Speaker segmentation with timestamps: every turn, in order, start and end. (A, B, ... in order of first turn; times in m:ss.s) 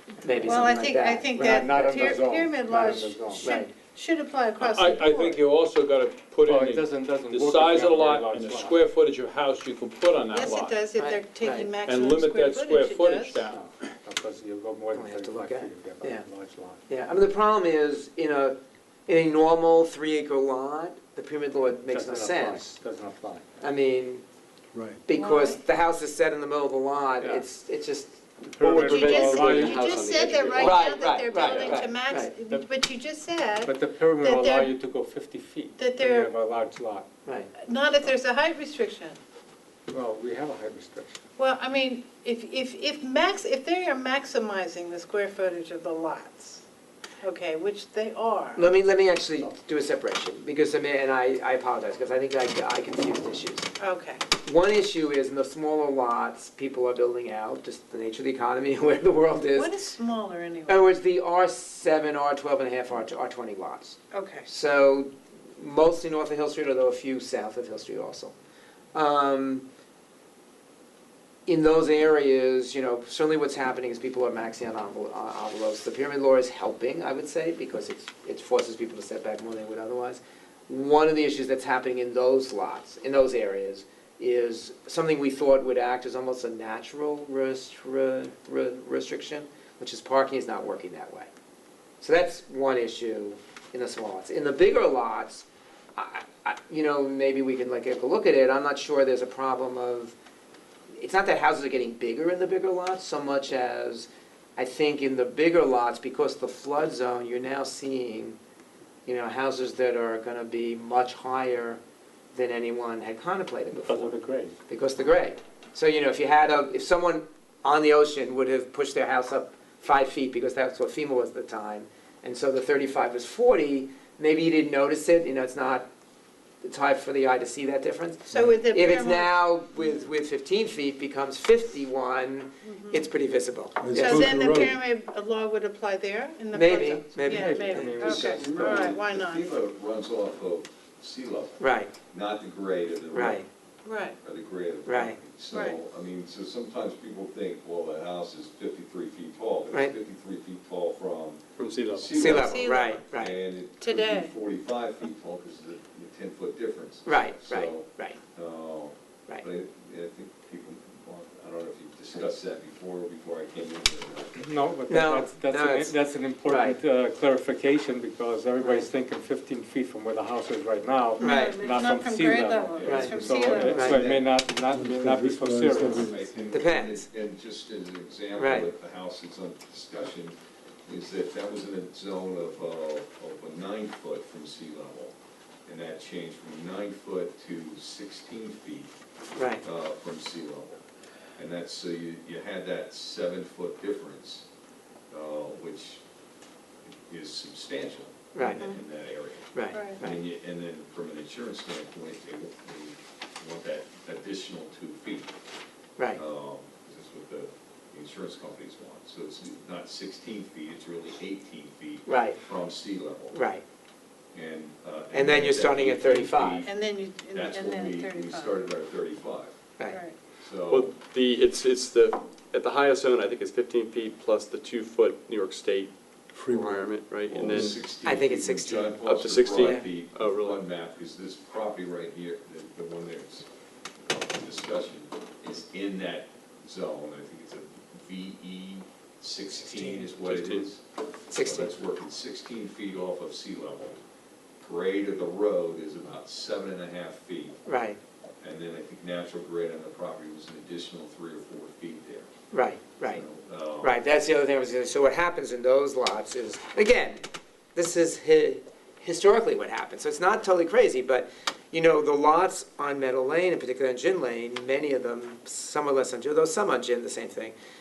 0:00.2-0:02.2 A
0:00.4-0:05.4 B
0:01.3-0:03.5 C
0:03.4-0:03.7 A
0:04.6-0:10.8 D
0:06.4-0:08.8 C
0:10.3-0:13.4 B
0:11.0-0:11.7 A
0:11.8-0:13.6 D
0:13.5-0:16.8 C
0:14.9-0:16.2 A
0:16.9-0:22.7 A
0:21.9-0:23.4 C
0:23.6-0:24.2 A
0:24.7-0:25.0 E
0:25.0-0:29.0 A
0:25.1-0:25.6 B
0:28.5-0:30.0 C
0:28.6-0:31.6 F
0:28.8-0:34.7 B
0:30.6-0:32.3 A
0:33.6-0:37.1 C
0:35.8-0:36.3 B
0:37.6-0:39.2 B
0:39.9-0:41.2 C
0:41.4-0:46.6 B
0:47.2-0:48.7 B
0:48.6-0:53.7 A
0:53.8-0:54.2 B
0:54.4-0:59.7 A
0:59.5-1:00.9 B
1:00.7-1:08.3 A
1:04.1-1:04.5 B
1:08.9-1:09.6 A
1:11.5-1:31.3 A
1:32.0-1:40.1 A
1:41.0-1:48.4 A
1:49.0-1:51.8 A
1:52.3-1:54.2 A
1:53.8-1:54.6 C
1:54.7-2:05.9 A
2:06.6-2:14.3 A
2:08.3-2:10.1 B
2:12.6-2:13.1 B
2:13.8-2:14.8 E
2:13.9-2:19.6 B
2:16.5-2:18.1 A
2:17.2-2:18.6 C
2:17.7-2:23.5 G
2:21.6-2:21.9 A
2:23.1-2:23.5 A
2:23.8-2:24.2 B
2:24.2-2:44.5 G
2:24.8-2:25.2 A
2:25.5-2:25.8 B
2:31.6-2:32.5 F
2:32.1-2:33.4 A
2:32.4-2:33.1 B
2:33.8-2:34.3 B
2:37.0-2:38.2 A
2:44.4-2:56.1 C
2:44.9-2:45.9 A
2:46.5-2:46.8 A
2:48.6-2:48.9 A
2:51.2-2:54.1 B
2:51.2-2:51.5 A
2:52.8-2:54.3 G
2:52.8-2:54.0 A
2:54.7-2:56.6 E
2:55.9-3:08.9 G
2:56.5-2:57.1 A
2:58.4-2:58.7 A
3:09.4-3:09.6 A
3:09.6-3:10.8 G
3:11.4-3:14.5 G
3:15.1-3:16.0 G
3:16.9-3:25.3 G
3:18.3-3:18.6 A
3:18.5-3:18.7 B
3:19.5-3:20.2 A
3:19.7-3:20.0 B
3:26.1-3:33.4 G
3:32.1-3:32.4 A
3:33.3-3:33.6 A
3:34.3-3:36.7 G
3:35.1-3:36.6 A
3:36.6-3:38.7 B
3:37.3-3:39.6 G
3:39.8-3:40.1 B
3:40.4-3:40.9 G
3:40.7-3:45.9 F
3:46.3-3:46.8 E
3:46.4-3:47.8 F
3:46.5-3:46.8 A
3:47.3-3:53.5 G
3:48.0-3:49.9 A
3:49.0-3:50.6 F
3:54.0-4:00.8 G
3:59.7-4:00.0 A
4:00.2-4:00.6 F
4:01.3-4:01.7 A
4:01.4-4:04.0 G
4:04.6-4:07.6 G
4:07.7-4:08.0 A
4:08.4-4:12.3 G
4:12.5-4:13.2 A
4:13.1-4:14.0 G
4:13.8-4:27.5 A